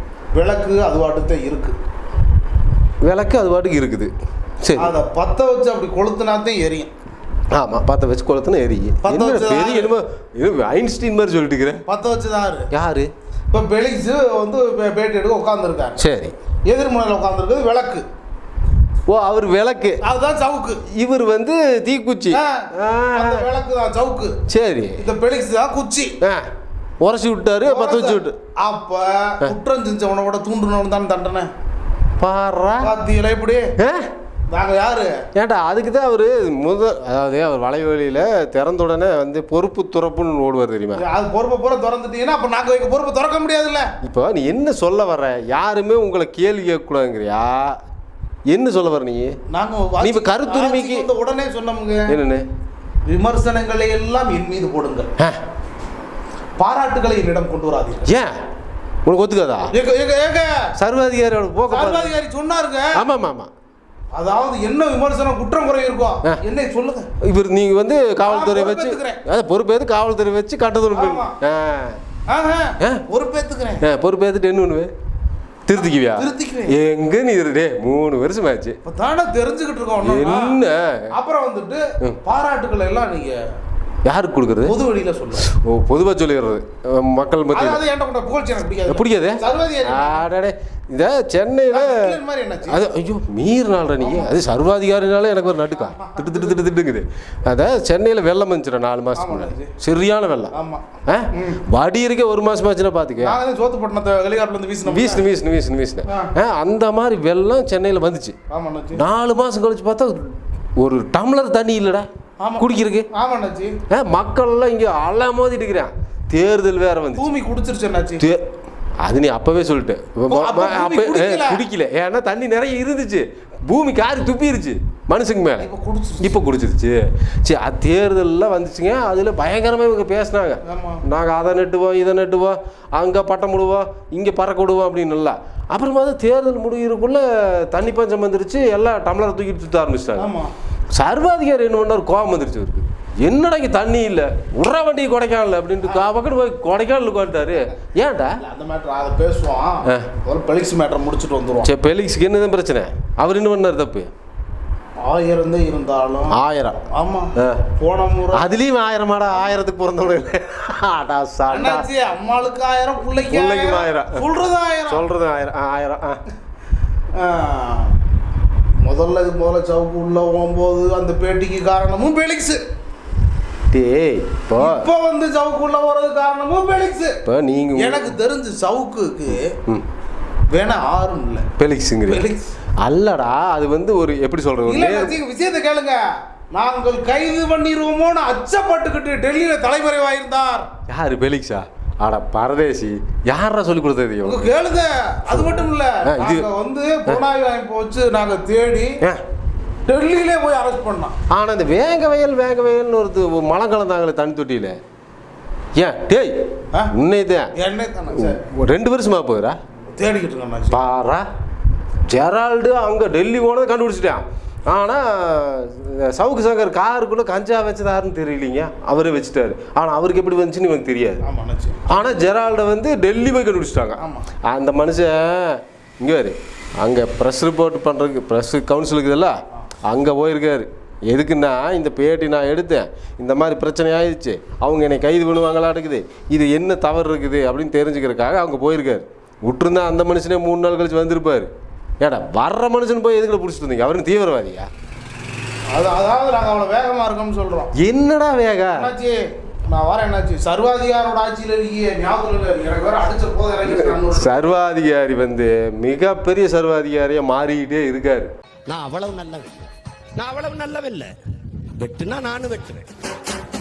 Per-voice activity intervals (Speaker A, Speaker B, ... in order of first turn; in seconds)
Speaker A: 0.3-1.8, 4.8-6.9, 9.0-9.9, 11.9-12.7, 13.5-16.0, 16.7-18.0, 20.0-20.8, 22.3-24.4, 25.0-26.2, 27.6-31.5, 32.8-33.7, 34.5-35.2, 41.0-43.9, 49.5-52.2, 53.1-55.1, 56.6-58.1, 59.7-60.7, 61.7-63.0, 64.1-67.1, 68.2-69.2, 70.9-71.4, 72.3-73.9, 75.8-76.8, 78.8-80.6, 81.1-83.4, 84.6-85.5, 87.5-90.2, 91.7-92.8, 94.0-94.3, 95.8-96.6, 99.2-99.7, 100.5-101.6, 103.2-105.3, 106.1-106.3, 108.5-109.0, 112.4-113.8, 117.2-118.3, 120.3-121.6, 125.6-126.4, 130.7-131.0, 140.2-140.5, 145.8-146.1, 148.4-151.7, 155.0-156.4, 156.9-158.5, 161.5-165.1, 167.1-167.9, 168.8-172.6, 174.6-177.2, 177.8-179.5, 180.5-181.5, 182.1-182.4, 184.7-186.0, 186.5-190.7, 194.2-199.0, 199.9-201.2, 207.6-208.4, 210.0-210.8, 221.2-222.1, 224.0-224.3, 245.7-247.7, 248.7-254.4
Speaker B: 3.0-4.9, 7.5-11.8, 12.7-13.1, 16.0-16.3, 19.1-20.0, 20.9-23.4, 24.5-25.0, 26.2-26.5, 27.0-28.4, 32.2-32.9, 33.8-34.1, 35.4-41.0, 44.0-47.8, 48.5-49.4, 50.0-51.1, 52.1-52.5, 58.1-58.4, 59.0-59.7, 60.8-62.1, 62.9-63.5, 67.3-72.0, 73.8-74.9, 75.7-78.8, 80.0-81.1, 84.0-84.8, 85.4-87.8, 88.9-92.2, 92.7-100.5, 101.1-103.4, 104.9-108.3, 109.0-112.1, 112.6-113.1, 113.9-117.3, 118.2-118.5, 119.0-125.7, 126.2-140.3, 140.9-148.4, 151.6-154.1, 156.3-156.8, 157.4-157.6, 158.3-161.9, 163.2-164.2, 164.9-166.2, 173.7-174.9, 177.3-178.2, 181.6-182.3, 182.8-185.2, 190.9-194.5, 195.3-196.5, 201.3-204.8, 205.8-206.3, 206.9-207.5, 208.1-209.6, 210.7-211.3, 212.1-221.2, 221.9-229.3, 229.9-244.7, 247.8-248.9, 253.7-258.3
Speaker C: 258.7-261.1, 261.8-262.9